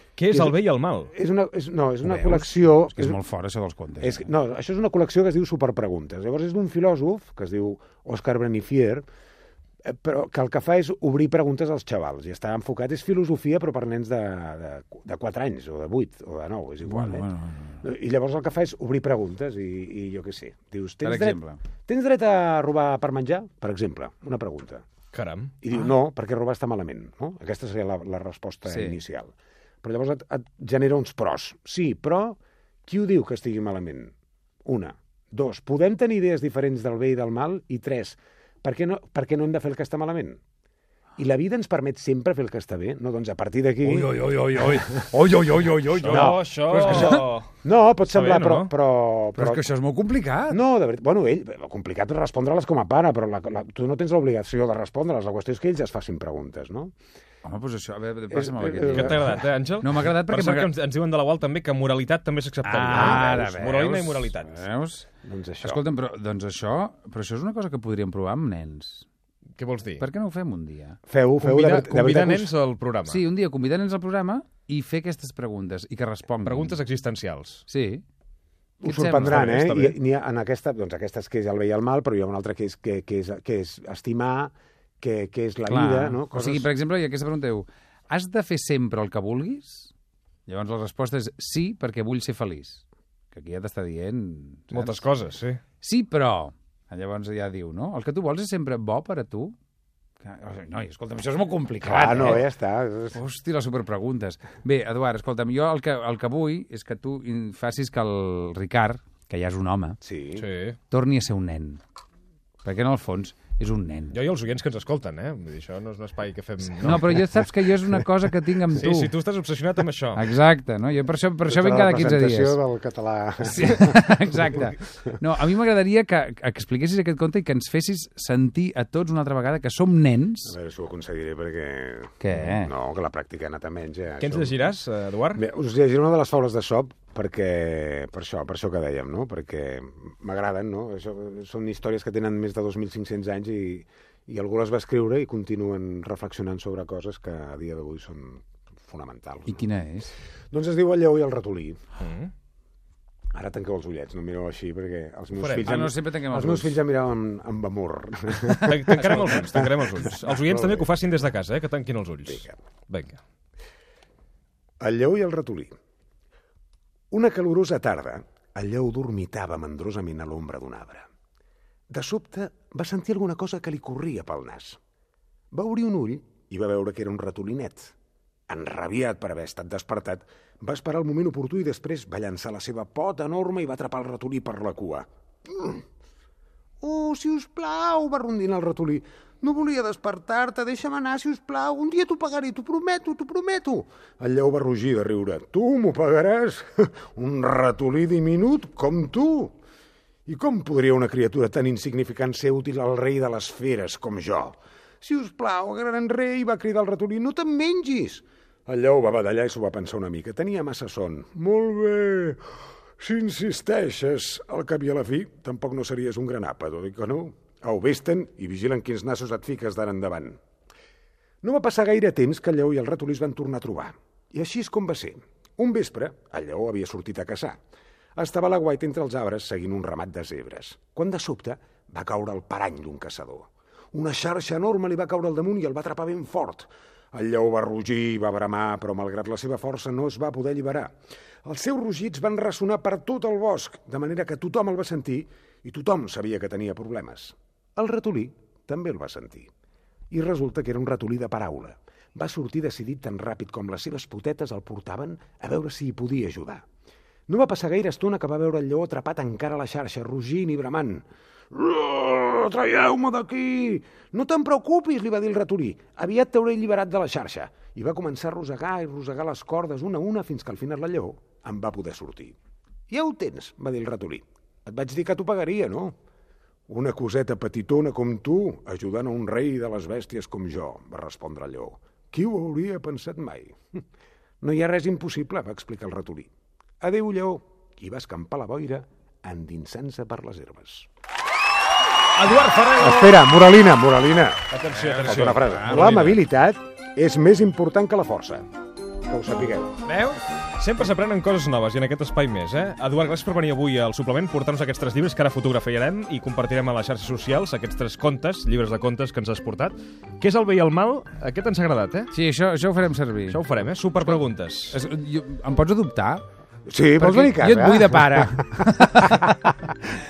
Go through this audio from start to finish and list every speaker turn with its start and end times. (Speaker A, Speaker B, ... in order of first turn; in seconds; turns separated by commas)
Speaker A: 0.2-1.1, Speaker B: 0.3-3.2, Speaker C: 2.0-4.3, Speaker B: 4.0-9.1, Speaker B: 9.8-24.8, Speaker C: 16.9-17.8, Speaker C: 21.0-21.6, Speaker A: 25.1-25.5, Speaker B: 25.6-29.3, Speaker C: 28.7-29.0, Speaker B: 29.8-34.1, Speaker B: 34.6-40.4, Speaker B: 41.2-44.1, Speaker C: 43.8-47.2, Speaker A: 46.0-47.5, Speaker B: 46.0-49.7, Speaker A: 48.1-48.7, Speaker C: 49.4-50.6, Speaker B: 50.5-56.9, Speaker C: 57.4-60.7, Speaker B: 58.3-59.3, Speaker A: 58.9-64.6, Speaker C: 62.6-65.1, Speaker B: 62.9-63.6, Speaker B: 65.2-65.8, Speaker C: 65.6-69.1, Speaker A: 69.6-70.0, Speaker C: 70.0-71.0, Speaker B: 71.1-72.5, Speaker A: 71.4-73.2, Speaker C: 73.1-76.8, Speaker A: 76.4-77.7, Speaker C: 77.7-78.0, Speaker B: 78.8-86.7, Speaker C: 78.8-79.6, Speaker A: 79.3-80.0, Speaker C: 85.7-89.9, Speaker C: 90.5-95.0, Speaker A: 94.7-95.6, Speaker C: 95.8-99.5, Speaker C: 100.2-102.5, Speaker B: 101.8-103.2, Speaker C: 103.1-110.0, Speaker B: 110.0-110.5, Speaker A: 110.4-110.8, Speaker C: 110.9-111.8, Speaker C: 112.6-114.2, Speaker A: 114.1-117.2, Speaker C: 116.8-119.1, Speaker A: 118.7-120.3, Speaker C: 120.2-122.6, Speaker B: 121.5-124.8, Speaker C: 123.4-130.6, Speaker B: 130.4-134.7, Speaker C: 132.2-132.7, Speaker A: 134.2-135.4, Speaker B: 135.3-149.7, Speaker C: 149.5-150.1, Speaker B: 150.5-151.8, Speaker A: 152.0-152.3, Speaker B: 153.3-160.9, Speaker A: 155.4-155.7, Speaker C: 155.6-156.8, Speaker A: 158.7-163.2, Speaker B: 162.3-162.6, Speaker B: 164.8-165.7, Speaker B: 167.1-171.1, Speaker B: 171.9-174.8, Speaker B: 175.5-177.9, Speaker B: 178.5-185.8, Speaker B: 186.8-199.6, Speaker B: 200.3-212.4, Speaker B: 213.0-220.4, Speaker B: 221.4-227.6, Speaker B: 228.2-249.5, Speaker B: 250.1-256.6, Speaker B: 257.3-272.4, Speaker B: 272.9-275.9, Speaker B: 276.7-283.6, Speaker B: 284.4-286.3, Speaker B: 286.8-290.9, Speaker A: 292.2-293.1, Speaker B: 292.8-298.5, Speaker A: 294.5-296.2, Speaker C: 295.0-295.9, Speaker B: 299.1-299.8, Speaker C: 299.9-300.2, Speaker A: 300.6-312.1, Speaker C: 312.1-313.4, Speaker A: 313.3-314.8, Speaker C: 314.7-316.3, Speaker B: 316.7-318.4, Speaker C: 317.0-319.3